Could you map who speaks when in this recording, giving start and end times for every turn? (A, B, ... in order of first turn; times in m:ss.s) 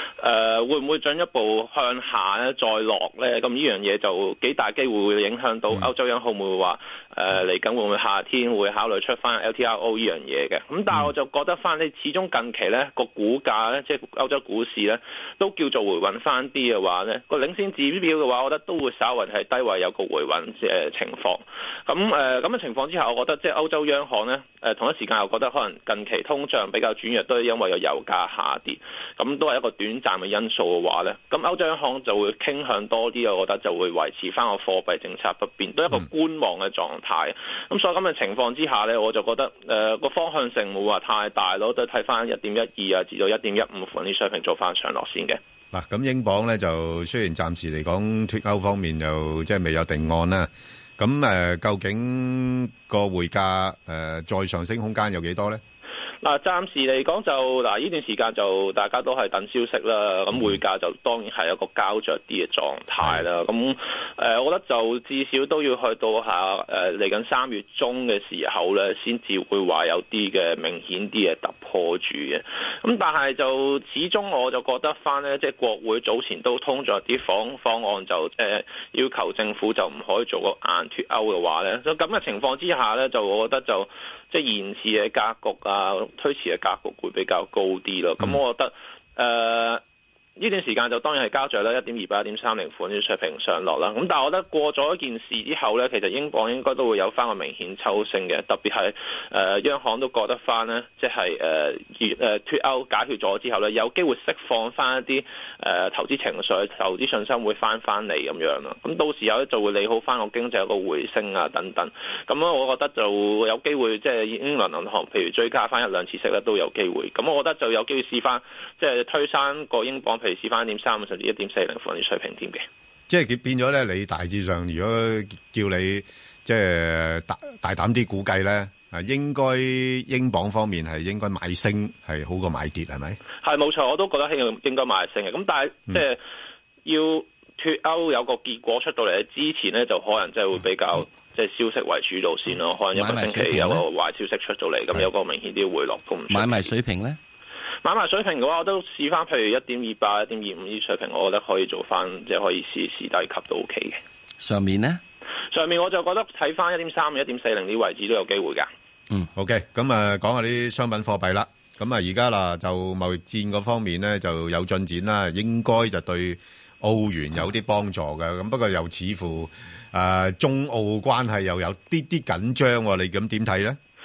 0:00.2-0:45.4 A
0:45.7-0:55.6 B
0:56.2-1:29.8 A
1:03.0-1:03.2 B
1:30.4-2:02.6 A
2:03.1-2:13.2 B
2:13.4-2:16.2 A
2:16.8-2:26.7 A
2:22.9-2:23.8 C
2:26.3-2:27.2 C
2:27.8-2:34.0 A
2:34.4-2:35.0 C
2:35.5-2:38.7 A
2:39.4-2:53.8 B